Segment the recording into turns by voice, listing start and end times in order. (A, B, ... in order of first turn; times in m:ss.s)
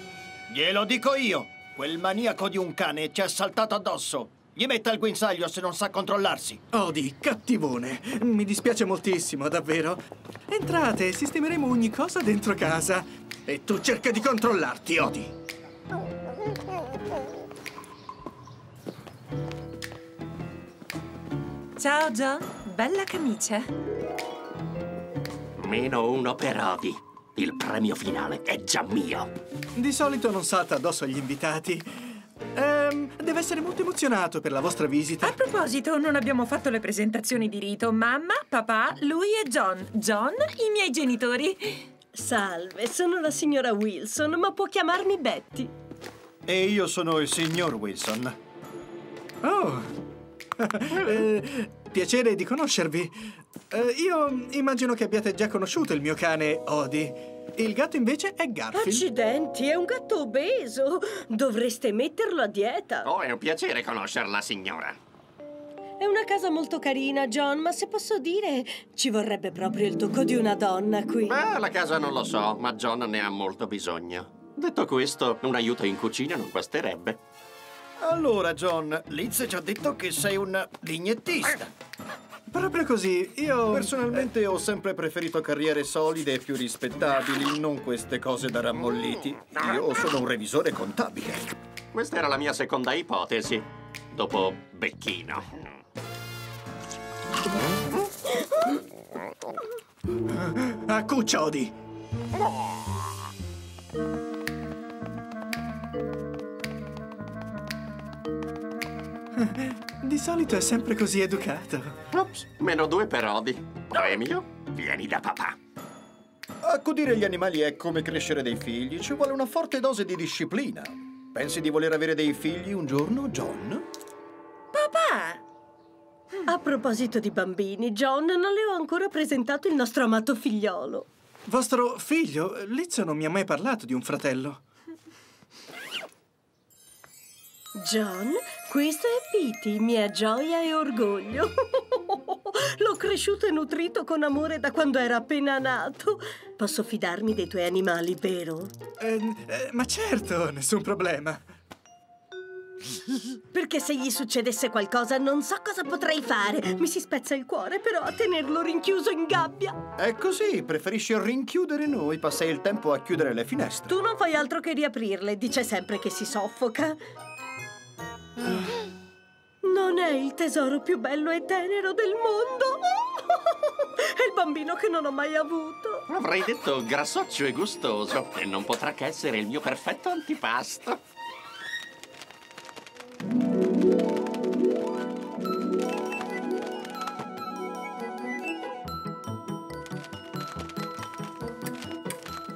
0:00.5-0:06.6 A
0:06.7-0:15.3 B
0:21.8-0:23.7 C
0:25.6-0:29.3 D
0:29.8-0:35.4 B
0:35.2-0:41.8 C
0:42.1-0:45.7 E
0:46.5-0:48.4 A
0:49.4-0:49.9 B
0:50.6-0:53.2 B
0:53.7-0:59.0 B
0:58.7-1:03.1 E
1:03.0-1:05.0 D
1:06.0-1:11.4 E
1:11.3-1:17.2 D
1:18.0-1:21.7 A
1:22.5-1:24.3 B
1:23.7-1:31.5 A
1:31.9-1:35.6 D
1:40.3-1:41.7 B
1:49.4-1:52.0 B
1:52.1-1:55.6 D
1:56.6-2:03.9 A
2:04.7-2:05.4 C
2:06.5-2:11.1 E
2:11.5-2:14.6 B
2:17.8-2:28.7 E
2:29.0-2:31.5 B
2:33.5-2:39.8 E
2:40.0-2:43.9 A
2:43.9-2:47.0 E
2:49.6-2:56.0 E
2:56.1-3:01.0 D